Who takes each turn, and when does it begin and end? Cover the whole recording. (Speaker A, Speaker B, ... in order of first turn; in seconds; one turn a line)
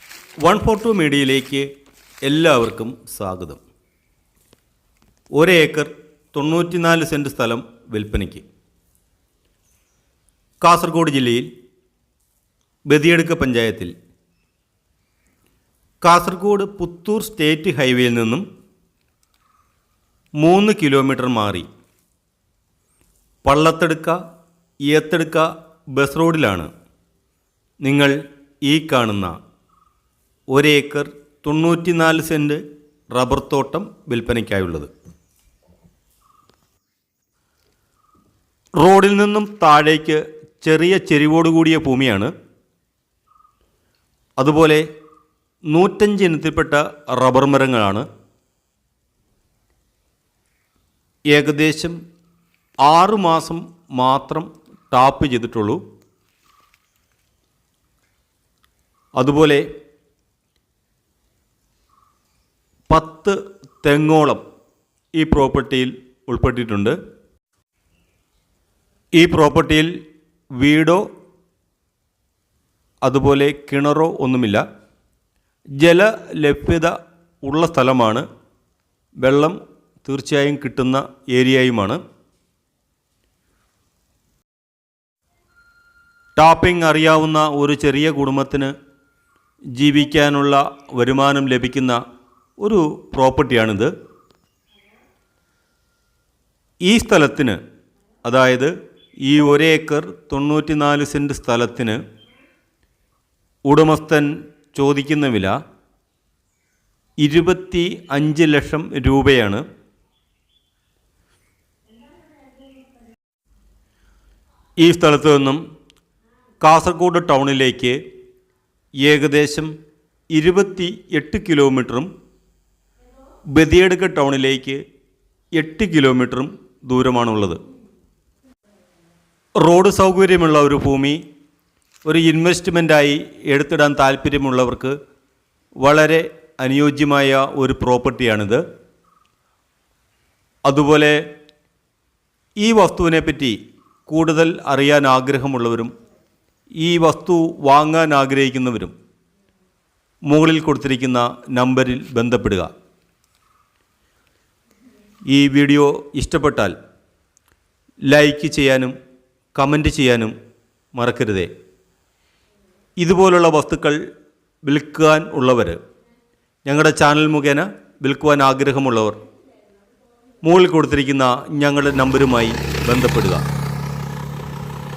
Speaker A: 0.4-1.7
Speaker A: 2.2-3.6
Speaker A: 5.4-8.4
Speaker A: 10.6-11.5
Speaker A: 12.9-13.9
Speaker A: 16.0-18.4
Speaker A: 20.4-21.7
Speaker A: 23.4-24.2
Speaker A: 24.9-26.7
Speaker A: 27.8-29.3
Speaker A: 30.5-32.6
Speaker A: 33.1-34.9
Speaker A: 38.8-42.3
Speaker A: 44.4-44.8
Speaker A: 45.7-48.1
Speaker A: 51.3-52.0
Speaker A: 52.9-55.8
Speaker A: 59.2-59.6
Speaker A: 62.9-64.4
Speaker A: 65.2-67.0
Speaker A: 69.2-69.9
Speaker A: 70.6-71.1
Speaker A: 73.0-74.6
Speaker A: 75.8-78.2
Speaker A: 79.2-82.0
Speaker A: 86.4-88.7
Speaker A: 89.8-92.0
Speaker A: 92.6-93.9
Speaker A: 96.8-97.6
Speaker A: 98.2-98.7
Speaker A: 99.2-102.0
Speaker A: 103.7-105.5
Speaker A: 107.2-109.7
Speaker A: 114.8-115.6
Speaker A: 116.6-118.0
Speaker A: 119.0-119.7
Speaker A: 120.3-122.1
Speaker A: 123.5-124.8
Speaker A: 125.5-127.6
Speaker A: 129.6-131.2
Speaker A: 132.1-135.0
Speaker A: 135.8-138.6
Speaker A: 140.7-141.2
Speaker A: 142.6-145.9
Speaker A: 146.8-148.9
Speaker A: 150.3-152.7
Speaker A: 155.3-156.8
Speaker A: 158.1-158.9
Speaker A: 159.5-160.3
Speaker A: 160.9-161.5
Speaker A: 163.0-164.0
Speaker A: 164.6-165.8
Speaker A: 166.7-169.2
Speaker A: 170.4-173.4